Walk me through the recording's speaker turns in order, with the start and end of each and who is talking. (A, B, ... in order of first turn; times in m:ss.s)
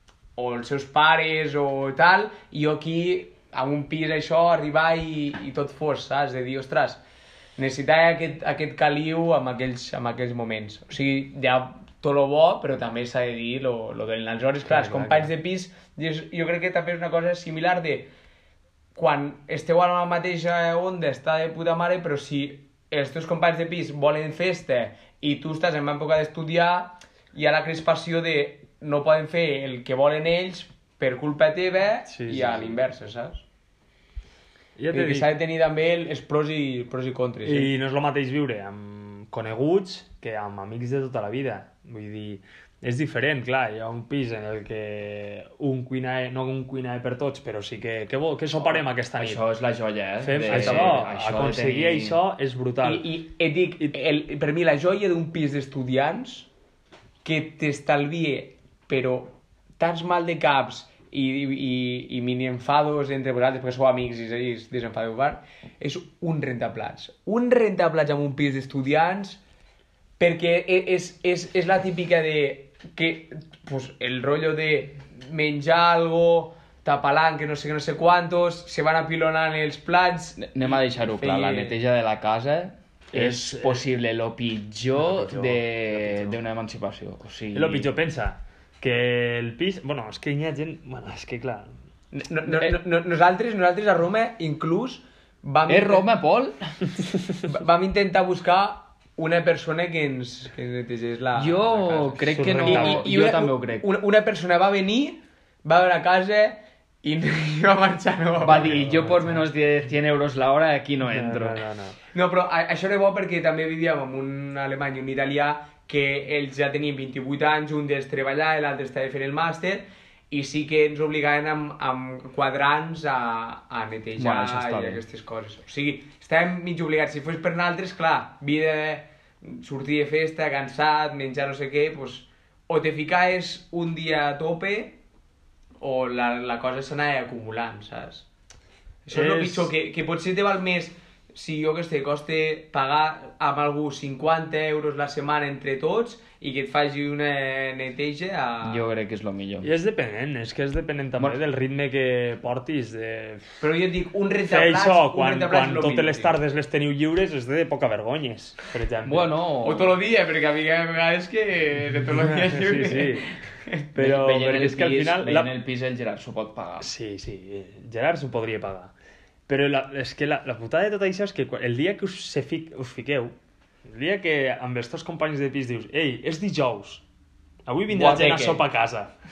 0:00.4-0:07.0 A
0:07.6-0:18.1 A
0:14.6-0:15.3 B
0:19.0-0:33.4 A
0:32.1-0:32.8 B
0:34.8-0:35.3 B
0:34.9-0:37.7 A
0:37.4-0:49.4 B
0:48.6-0:52.2 C
0:50.2-0:53.1 B
0:50.4-0:51.0 A
0:52.8-0:56.5 A
0:57.2-1:09.4 A
1:10.2-1:21.8 A
1:20.4-1:27.9 C
1:23.1-1:23.9 B
1:25.0-1:26.4 B
1:27.5-1:31.7 B
1:32.1-1:36.1 A
1:35.7-1:36.8 C
1:37.5-1:48.8 A
1:41.4-1:43.9 C
1:42.3-1:43.1 B
1:48.4-1:51.6 C
1:48.5-1:49.4 B
1:51.1-1:52.0 B
1:52.1-2:15.0 A
2:04.2-2:05.0 C
2:15.8-2:18.3 A
2:19.0-2:28.9 A
2:19.1-2:19.7 B
2:28.6-2:29.7 C
2:29.6-2:33.6 B
2:33.6-2:36.4 A
2:34.5-2:39.3 B
2:39.0-2:40.0 C
2:39.6-2:43.8 A
2:42.2-2:43.3 B
2:43.9-2:45.5 B
2:44.0-2:46.9 C
2:46.8-2:48.9 B
2:49.5-2:53.3 B
2:53.9-2:57.0 B
2:57.7-2:59.1 B
2:57.9-2:58.6 C